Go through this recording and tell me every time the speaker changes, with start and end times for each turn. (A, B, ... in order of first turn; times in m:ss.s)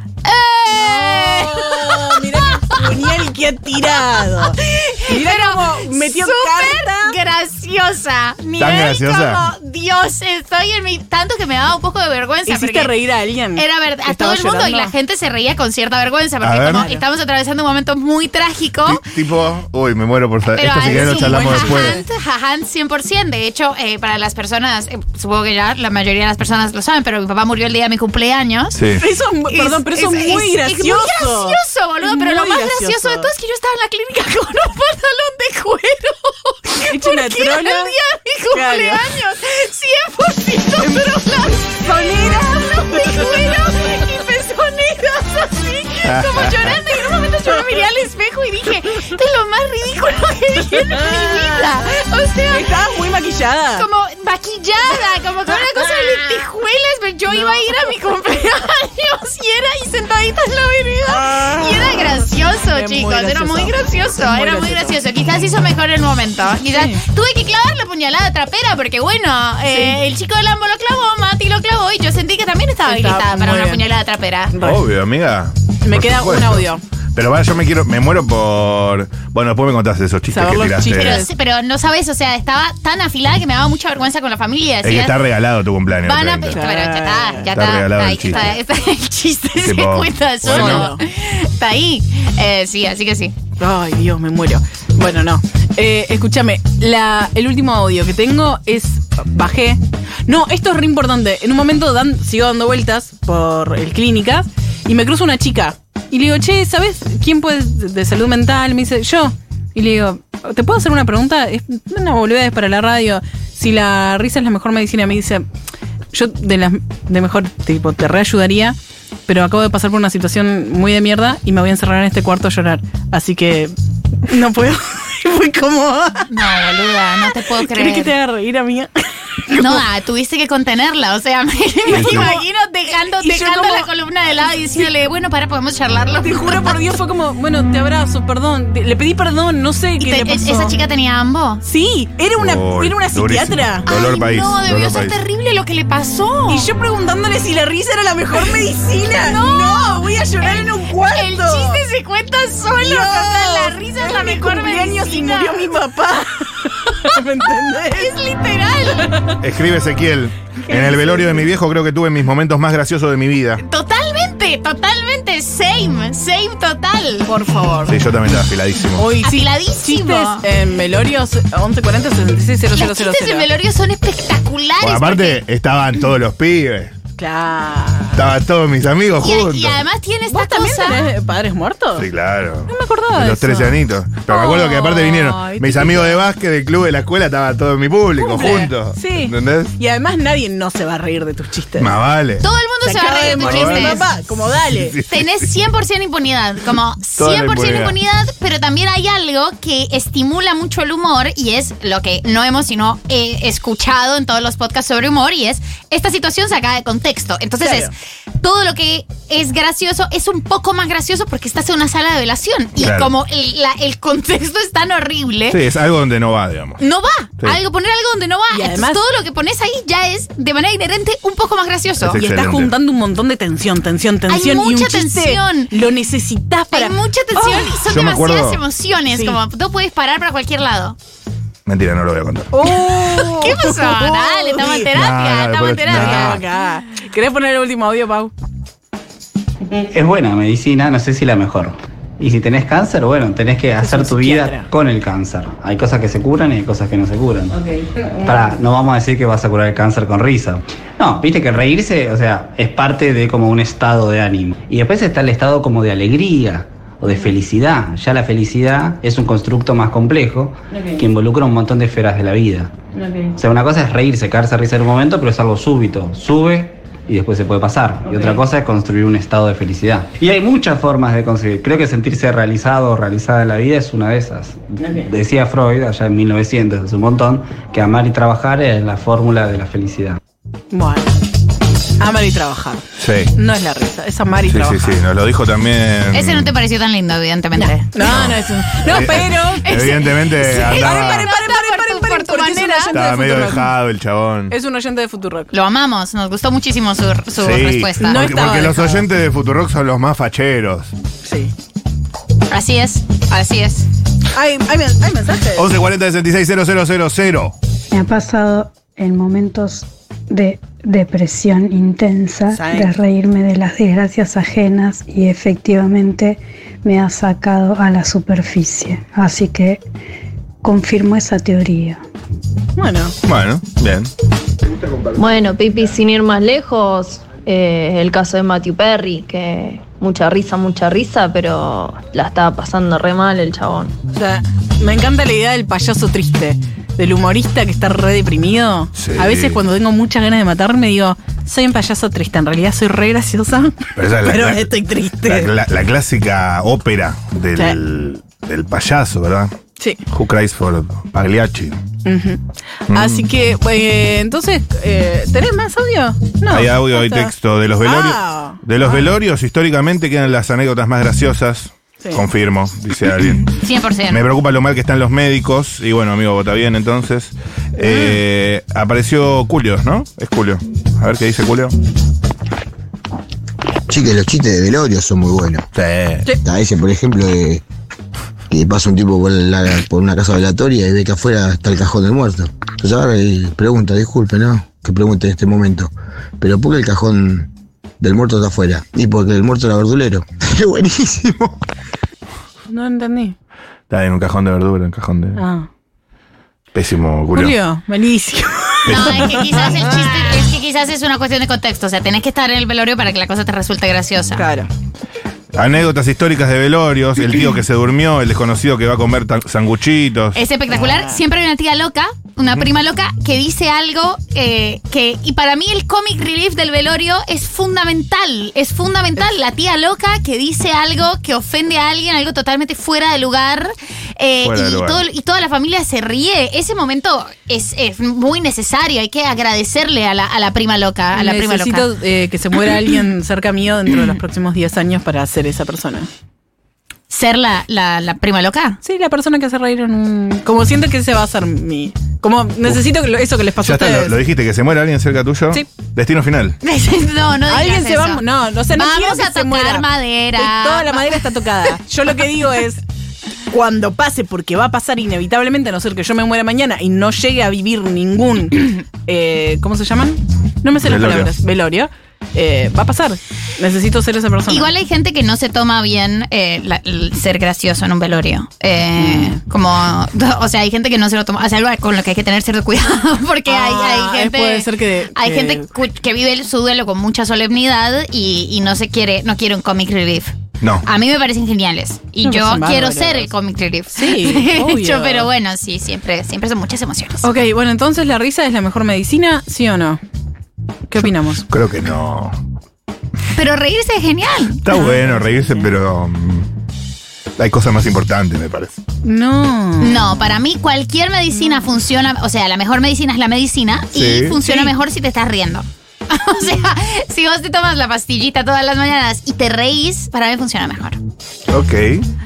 0:00.2-0:03.1 A
0:00.7-0:07.2 B
0:04.0-0:12.9 A
0:08.6-0:09.5 C
0:12.5-0:14.9 B
0:13.6-0:19.0 A
0:16.4-0:16.9 C
0:16.7-0:17.0 B
0:18.8-0:22.0 C
0:20.6-0:28.8 A
0:20.8-0:22.0 B
0:28.8-0:29.0 C
0:29.0-0:33.3 B
0:29.5-0:44.0 A
0:36.9-0:38.0 B
0:38.5-0:39.1 B
0:40.8-0:47.9 B
0:46.0-0:52.7 A
0:46.0-0:46.7 C
0:50.7-0:51.8 B
0:52.5-0:53.9 B
0:53.8-1:14.5 A
0:55.5-0:56.4 B
0:57.3-0:57.9 B
1:01.1-1:05.0 B
1:06.7-1:07.0 B
1:09.7-1:10.0 B
1:12.8-1:13.8 B
1:14.5-1:14.8 B
1:14.6-1:21.3 C
1:15.8-1:16.8 B
1:20.3-1:21.3 B
1:20.9-1:25.2 A
1:24.8-1:26.6 C
1:26.0-1:33.4 A
1:26.5-1:27.5 B
1:27.5-1:28.5 C
1:29.6-1:30.9 C
1:30.5-1:31.0 B
1:33.6-1:55.4 B
1:56.1-2:03.7 B
2:04.3-2:06.3 B
2:06.3-2:08.1 A
2:07.4-2:09.8 B
2:09.5-2:16.8 A
2:11.9-2:13.9 B
2:11.9-2:12.3 C
2:14.6-2:14.9 B
2:16.2-2:20.8 B
2:20.0-2:21.6 A
2:21.6-2:23.9 B
2:22.4-2:25.2 C
2:23.9-2:26.7 A
2:26.5-2:31.8 B
2:29.2-2:35.7 A
2:32.8-2:38.2 B
2:38.0-2:39.0 A
2:38.8-2:39.4 B
2:39.4-2:43.6 C
2:40.6-2:41.5 B
2:43.6-2:47.9 A
2:47.3-2:47.9 B
2:47.9-2:49.1 C
2:49.0-2:53.5 B
2:49.2-2:50.4 A
2:52.8-2:55.4 A
2:54.8-2:56.9 C
2:57.2-2:58.3 B
2:58.1-2:59.8 C
2:59.2-3:01.1 A
3:00.3-3:02.1 B
3:02.0-3:09.7 C
3:02.7-3:06.2 B
3:08.2-3:12.0 B
3:11.8-3:12.5 C
3:12.4-3:14.0 A
3:12.8-3:15.0 B
3:13.3-3:14.1 C
3:14.7-3:15.2 C
3:15.1-3:35.6 A
3:17.2-3:18.0 C
3:27.6-3:27.9 B
3:32.8-3:33.1 C
3:35.5-3:36.8 C
3:36.8-3:42.2 A
3:38.5-3:39.0 B
3:42.0-3:42.7 C
3:42.2-3:47.8 B
3:44.3-3:45.7 A
3:46.7-3:51.0 A
3:47.8-3:48.6 C
3:49.1-3:49.4 B
3:51.7-3:52.5 C
3:52.5-3:54.9 B
3:52.7-3:56.4 A
3:54.9-3:56.4 C
3:55.9-3:58.3 B
3:59.9-4:07.5 D
4:03.8-4:04.7 B
4:07.6-4:08.4 B
4:08.2-4:22.7 D
4:23.4-4:40.2 D
4:28.1-4:28.4 B
4:40.7-4:41.2 B
4:42.0-4:45.0 B
4:43.0-4:43.3 C
4:44.5-4:46.5 C
4:46.1-4:47.9 A
4:47.6-4:53.7 B
4:48.0-4:51.3 C
4:49.7-4:53.0 A
4:52.9-4:54.6 C
4:54.5-4:55.5 B
4:55.5-4:58.3 A
4:57.3-5:00.9 C
4:58.0-4:59.0 B
5:01.2-5:01.5 B
5:02.5-5:03.9 A
5:04.3-5:05.7 B
5:05.6-5:07.6 C
5:07.9-5:19.8 E
5:12.5-5:12.9 B
5:20.6-5:22.0 E
5:22.8-5:23.2 B
5:23.2-5:24.1 C
5:25.2-5:33.9 F
5:34.1-5:45.6 B
5:39.0-5:39.6 C
5:44.0-5:49.5 C
5:50.1-5:51.8 C
5:52.0-5:59.1 B
5:52.9-5:53.3 C
5:56.5-6:03.5 C
6:03.5-6:04.2 A
6:04.1-6:11.7 C
6:07.8-6:08.2 B
6:13.9-6:15.7 G
6:15.8-6:16.3 C
6:16.4-6:17.6 G
6:18.5-6:31.6 G
6:32.7-6:33.4 B
6:33.9-6:35.4 C
6:35.4-6:35.7 B
6:36.7-6:37.6 C
6:37.3-6:40.5 B
6:38.9-6:39.4 C
6:38.9-6:44.5 A
6:44.4-6:44.7 B
6:45.6-6:50.4 C
6:50.4-7:11.9 A
6:50.7-6:51.2 B
7:04.4-7:05.0 C
7:11.1-7:16.1 B
7:17.1-7:18.8 A
7:18.8-7:24.2 B
7:23.6-7:26.6 C
7:26.6-7:31.7 A
7:27.5-7:32.8 B
7:33.5-7:44.7 B
7:40.8-7:41.3 C
7:44.5-8:07.3 A
7:49.0-7:49.4 B
7:53.5-7:55.7 B
8:00.6-8:00.9 C
8:02.2-8:03.3 B
8:03.9-8:05.3 B
8:07.2-8:10.0 B
8:10.9-8:11.5 B
8:11.0-8:12.4 C
8:13.4-8:14.6 A
8:14.6-8:16.5 C
8:14.7-8:15.7 B
8:17.4-8:18.8 C
8:19.0-8:20.4 B
8:19.8-8:31.0 A
8:21.3-8:21.7 B
8:23.9-8:24.4 C
8:24.4-8:24.7 B
8:31.5-8:32.1 C